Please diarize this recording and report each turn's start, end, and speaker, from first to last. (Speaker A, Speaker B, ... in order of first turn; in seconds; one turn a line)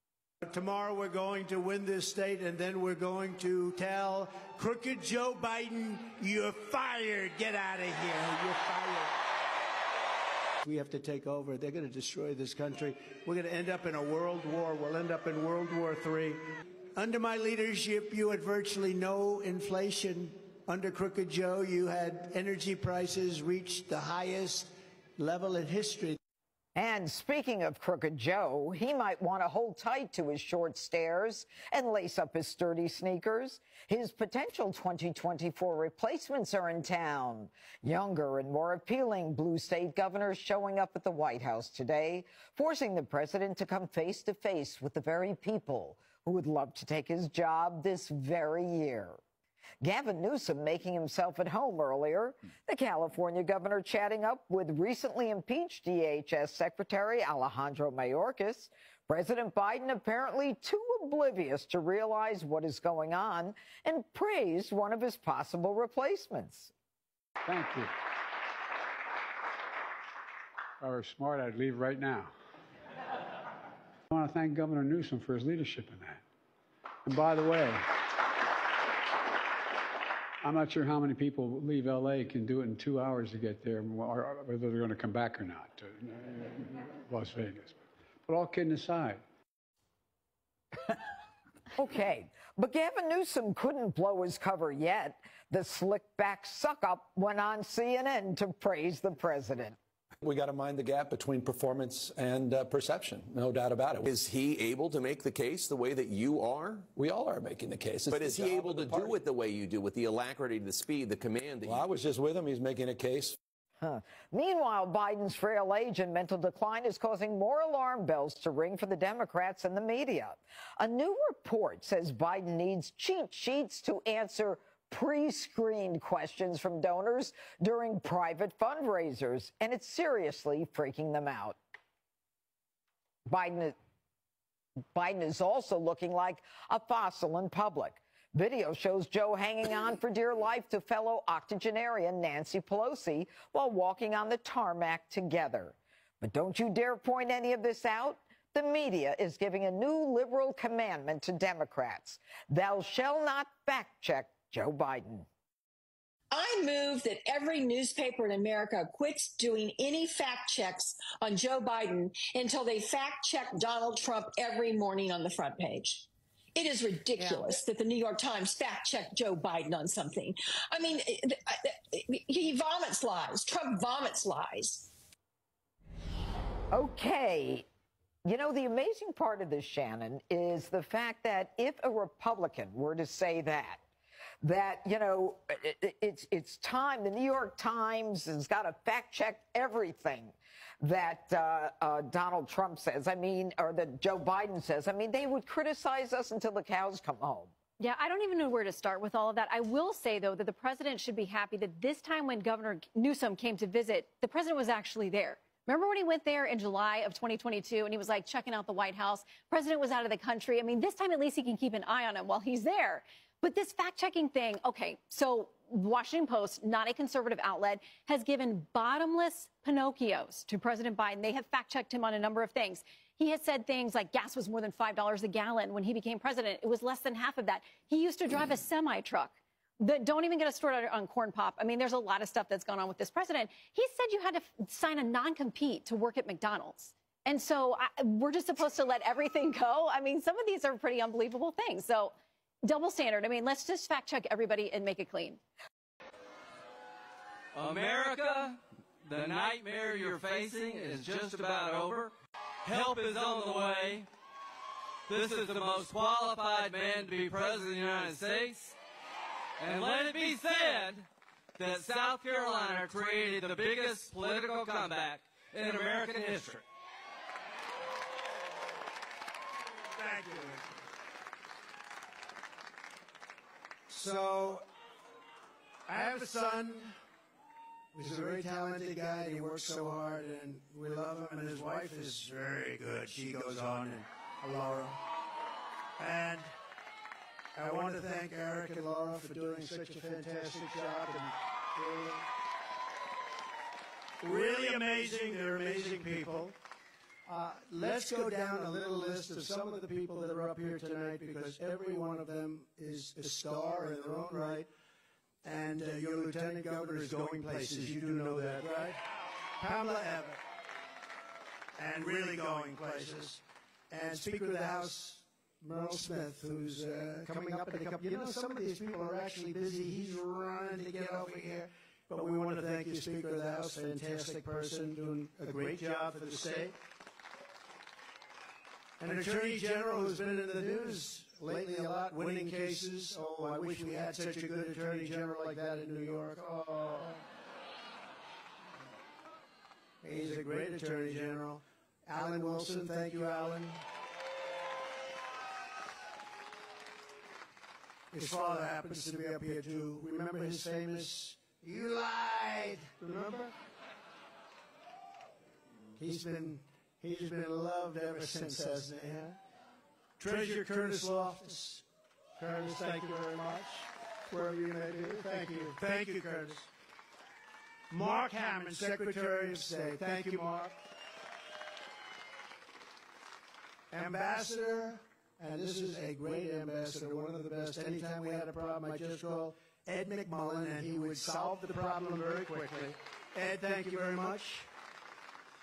Speaker A: 0.4-9.2
Speaker A: 10.6-16.4
Speaker A: 16.9-26.2
Speaker B: 26.7-49.2
Speaker B: 49.8-66.7
Speaker C: 67.5-67.9
Speaker C: 70.8-72.3
Speaker C: 74.1-76.2
Speaker C: 77.0-77.9
Speaker C: 80.4-89.2
Speaker B: 91.8-99.8
Speaker D: 100.2-104.1
Speaker E: 104.1-106.9
Speaker D: 106.9-109.2
Speaker E: 108.1-111.8
Speaker D: 111.6-113.4
Speaker B: 113.8-131.6
Speaker B: 133.3-133.8
Speaker B: 134.9-155.3
Speaker F: 156.3-174.9
Speaker B: 176.7-177.7
Speaker B: 178.2-183.8
Speaker B: 184.4-197.5
Speaker G: 197.8-242.1
Speaker G: 242.6-245.4
Speaker H: 247.6-252.1
Speaker H: 252.7-254.1
Speaker H: 255.1-258.8
Speaker H: 259.6-261.1
Speaker H: 261.6-266.6
Speaker A: 269.9-270.6
Speaker A: 273.9-274.6
Speaker A: 275.9-276.9
Speaker A: 277.9-285.0
Speaker A: 286.0-286.5
Speaker A: 287.6-292.2
Speaker A: 294.2-296.6
Speaker A: 297.3-304.7
Speaker A: 305.4-309.0
Speaker A: 309.6-310.4
Speaker A: 311.8-326.8
Speaker A: 329.0-337.2
Speaker A: 340.0-343.8
Speaker A: 348.1-353.5
Speaker A: 356.0-359.4
Speaker A: 360.2-361.8
Speaker A: 362.4-366.7
Speaker A: 367.9-370.7
Speaker A: 373.9-384.7